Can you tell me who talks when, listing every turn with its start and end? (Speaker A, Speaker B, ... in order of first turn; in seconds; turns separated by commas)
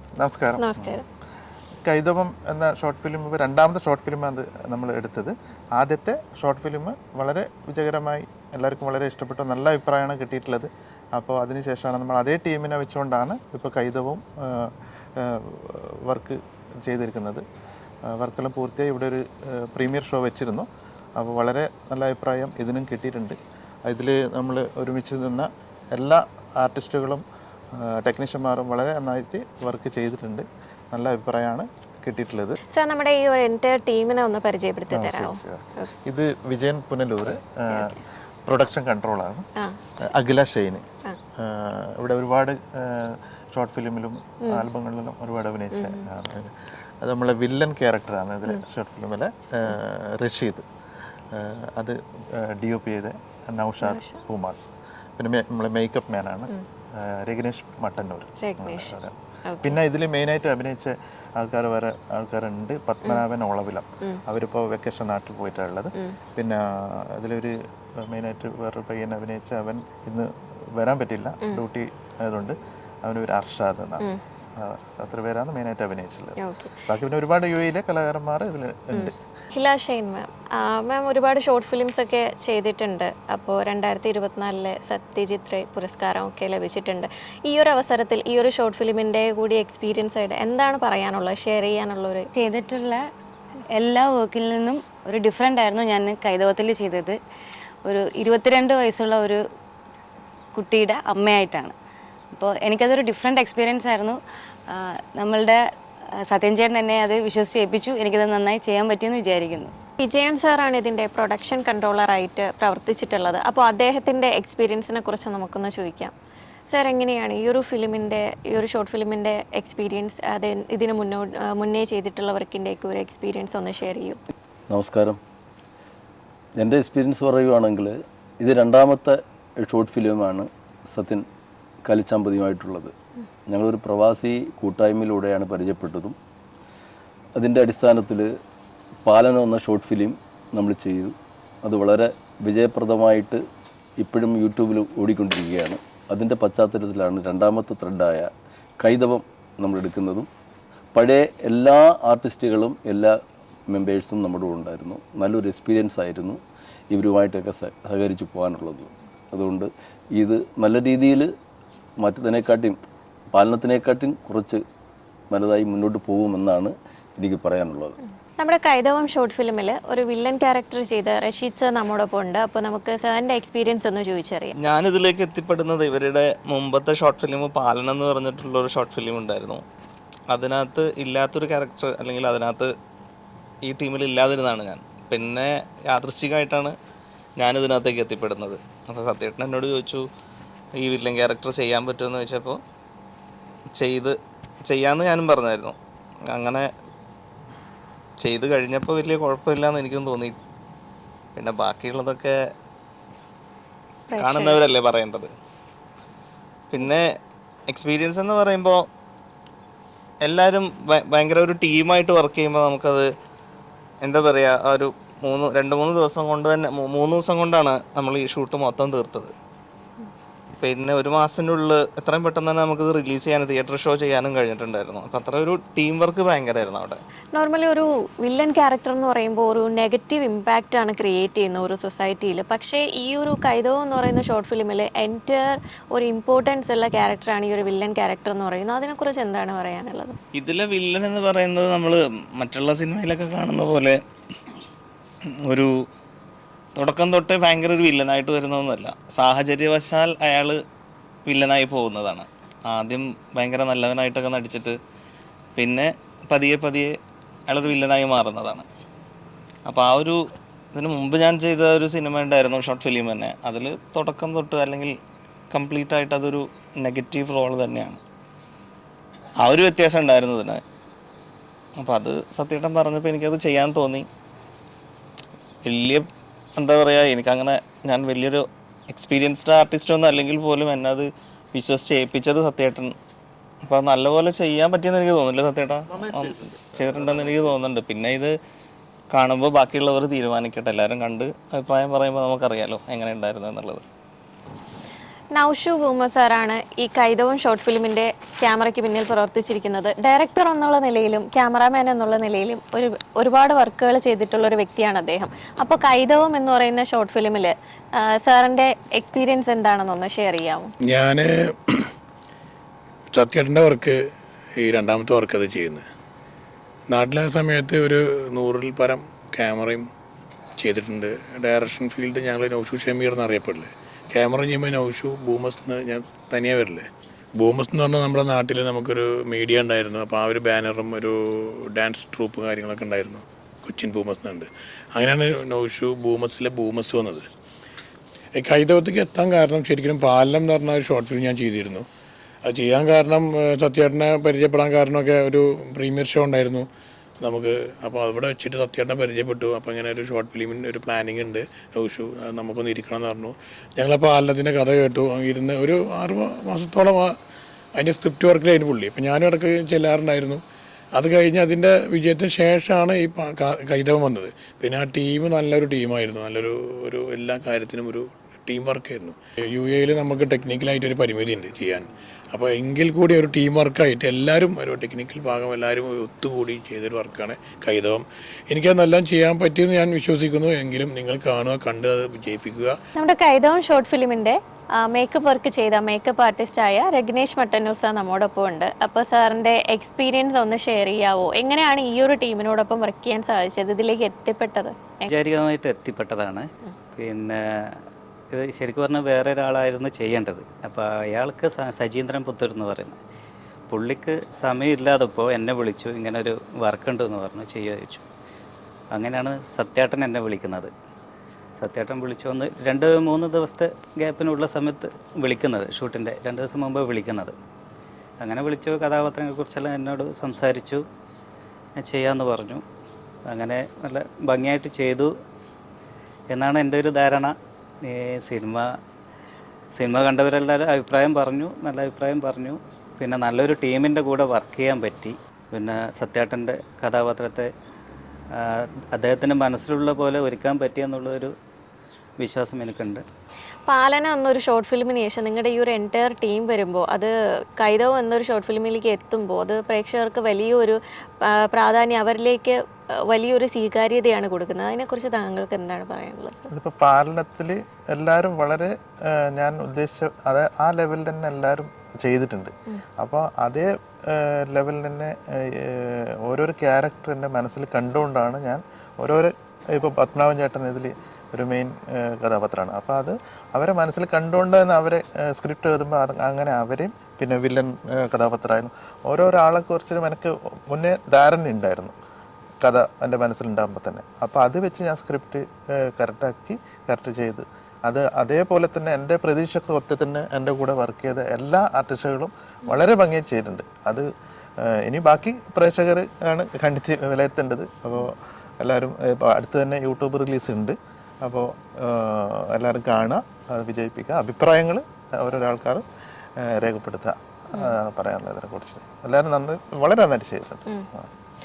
Speaker A: 0.2-1.0, Speaker B: 0.6-1.0, Speaker A: 1.8-17.4, Speaker A: 18.1-32.6, Speaker B: 32.7-35.9, Speaker A: 34.9-38.0, Speaker A: 38.5-39.5, Speaker A: 40.0-40.8, Speaker A: 41.4-46.5, Speaker B: 45.7-46.0, Speaker A: 47.0-50.6, Speaker A: 51.3-79.1, Speaker B: 53.8-54.2, Speaker B: 58.4-58.9, Speaker B: 59.4-59.8, Speaker B: 76.4-76.8, Speaker B: 78.9-92.3, Speaker C: 92.3-93.0, Speaker C: 93.8-97.2, Speaker C: 97.8-99.4, Speaker C: 100.5-101.7, Speaker C: 102.3-104.2, Speaker C: 104.7-105.6, Speaker C: 106.2-109.7, Speaker B: 110.0-116.1, Speaker B: 116.7-124.2, Speaker D: 124.7-125.2, Speaker D: 126.6-131.2, Speaker D: 131.8-132.9, Speaker D: 133.5-136.2, Speaker D: 137.3-138.3, Speaker D: 139.0-143.4, Speaker D: 144.0-148.3, Speaker D: 148.8-150.3, Speaker D: 150.9-153.1, Speaker D: 153.7-156.4, Speaker D: 156.9-161.3, Speaker D: 162.0-162.8, Speaker D: 163.3-164.6, Speaker D: 165.3-168.0, Speaker B: 168.4-174.5, Speaker E: 174.6-179.6, Speaker E: 180.3-182.7, Speaker E: 183.6-186.7, Speaker E: 187.4-190.0, Speaker E: 190.8-192.6, Speaker E: 193.8-194.1, Speaker E: 194.7-195.8, Speaker E: 196.3-196.7, Speaker E: 198.2-200.4, Speaker E: 201.3-202.3, Speaker B: 204.1-204.6, Speaker E: 204.2-205.3, Speaker E: 206.7-207.0, Speaker E: 207.7-208.8, Speaker E: 210.2-213.1, Speaker E: 214.0-219.3, Speaker E: 220.6-227.0, Speaker B: 227.3-240.2, Speaker E: 240.3-244.0, Speaker E: 246.8-250.6, Speaker E: 251.3-254.8, Speaker E: 255.6-256.9, Speaker E: 257.5-258.6, Speaker E: 259.6-260.2, Speaker E: 260.7-265.0, Speaker E: 265.5-268.0, Speaker E: 269.4-270.6, Speaker E: 271.8-274.1, Speaker E: 275.6-282.9, Speaker E: 283.6-288.3, Speaker E: 289.1-293.8, Speaker B: 295.3-310.7, Speaker F: 310.9-311.9, Speaker F: 313.1-314.0, Speaker F: 314.6-315.8, Speaker F: 316.9-319.9, Speaker F: 320.6-337.3, Speaker F: 338.3-341.9, Speaker F: 342.4-346.7, Speaker F: 347.2-357.1, Speaker F: 357.8-360.4, Speaker F: 360.9-382.8, Speaker B: 383.0-395.1, Speaker G: 395.1-397.8, Speaker G: 398.3-403.0, Speaker G: 403.7-408.0, Speaker G: 408.9-410.7, Speaker G: 411.6-417.4, Speaker G: 418.2-420.8, Speaker G: 421.8-422.6, Speaker G: 423.3-425.1, Speaker G: 426.3-428.7, Speaker G: 429.7-437.5, Speaker G: 438.4-441.3, Speaker G: 442.2-443.0, Speaker B: 443.6-452.6, Speaker B: 453.1-456.5, Speaker A: 456.5-481.9, Speaker A: 482.6-494.1, Speaker A: 494.6-505.8, Speaker A: 506.4-511.0